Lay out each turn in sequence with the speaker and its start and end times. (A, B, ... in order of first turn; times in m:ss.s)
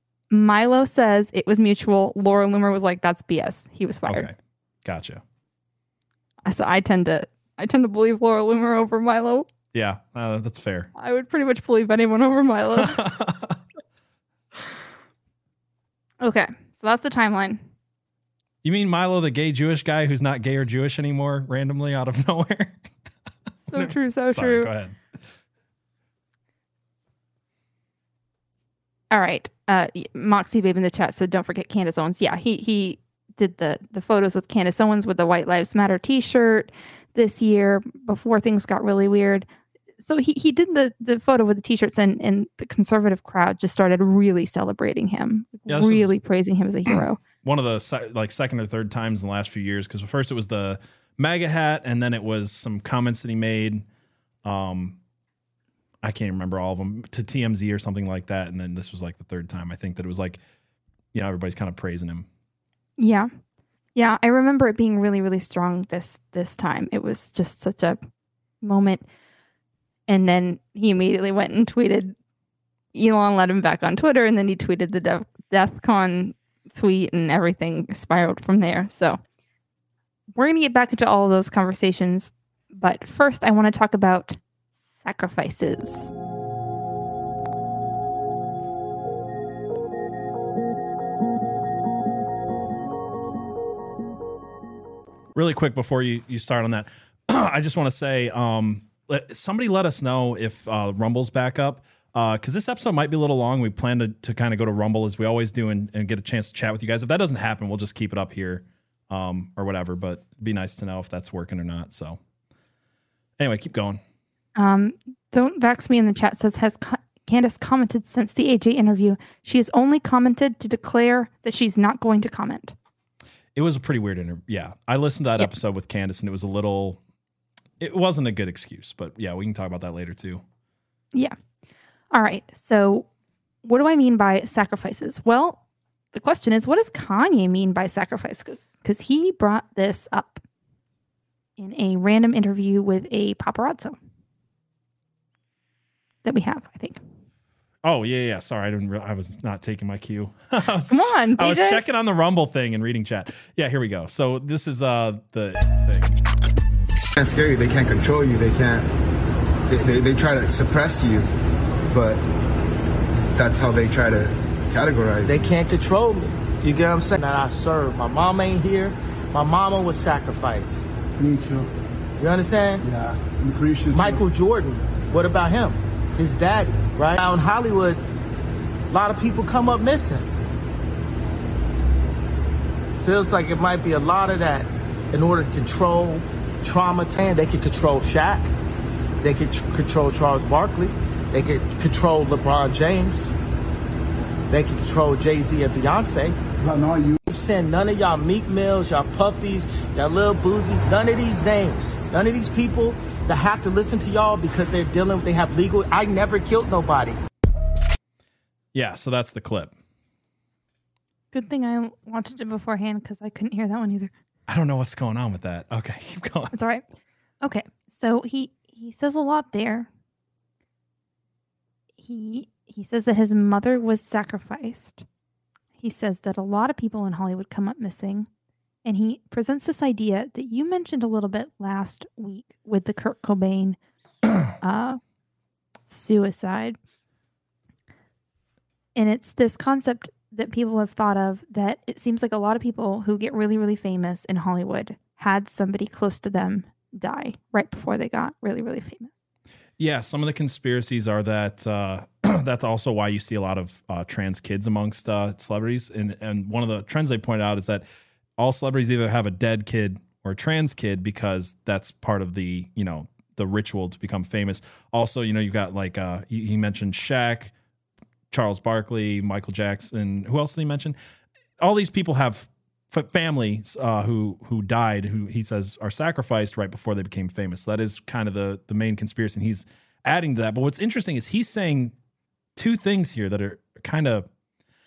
0:00.3-0:04.3 A
0:04.1-0:05.2 B
0:06.5-0:09.5 A
0:09.7-0:10.9 B
0:11.0-0:13.0 A
0:12.8-0:13.6 B
0:16.2-0:17.6 A
0:18.6-0:22.8 B
0:23.7-0:24.7 A
0:23.7-0:25.0 B
0:29.1-0:39.5 A
0:40.0-0:47.2 A
0:45.7-0:46.1 B
0:46.9-0:53.8 B
0:54.4-0:55.0 B
0:56.0-1:00.4 B
1:01.1-1:02.3 B
1:03.0-1:03.3 A
1:04.0-1:08.0 A
1:08.6-1:09.0 A
1:10.1-1:12.2 A
1:12.9-1:19.2 A
1:20.3-1:26.1 A
1:35.4-1:52.2 B
1:53.4-1:54.0 B
1:54.6-2:02.8 A
2:03.6-2:07.0 B
2:07.8-2:10.4 B
2:12.1-2:13.1 A
2:13.6-2:15.6 A
2:16.1-2:20.4 A
2:21.6-2:24.0 A
2:26.2-2:27.0 A
2:27.8-2:36.2 B
2:30.9-2:31.8 A
2:37.2-2:38.9 C
2:39.7-2:41.3 C
2:41.9-2:42.2 C
2:43.4-2:45.4 C
2:45.3-2:50.8 D
2:51.2-2:51.7 C
2:52.2-2:52.8 D
2:53.9-2:58.0 D
2:58.9-3:00.3 D
3:03.0-3:08.5 D
3:09.2-3:13.3 D
3:14.5-3:16.4 D
3:16.8-3:17.1 C
3:17.3-3:27.2 D
3:28.7-3:29.7 B
3:31.3-3:34.1 A
3:34.5-3:36.5 B
3:36.5-3:36.8 A
3:37.4-3:39.9 A
3:42.0-3:45.0 A
3:45.8-3:48.3 A
3:48.8-3:53.8 A
3:54.6-3:55.0 A
3:55.9-3:56.8 A
3:59.0-4:09.2 A
4:09.8-4:17.8 B
4:18.4-4:27.5 B
4:28.3-4:31.0 B
4:31.6-4:41.9 B
4:42.6-4:44.3 B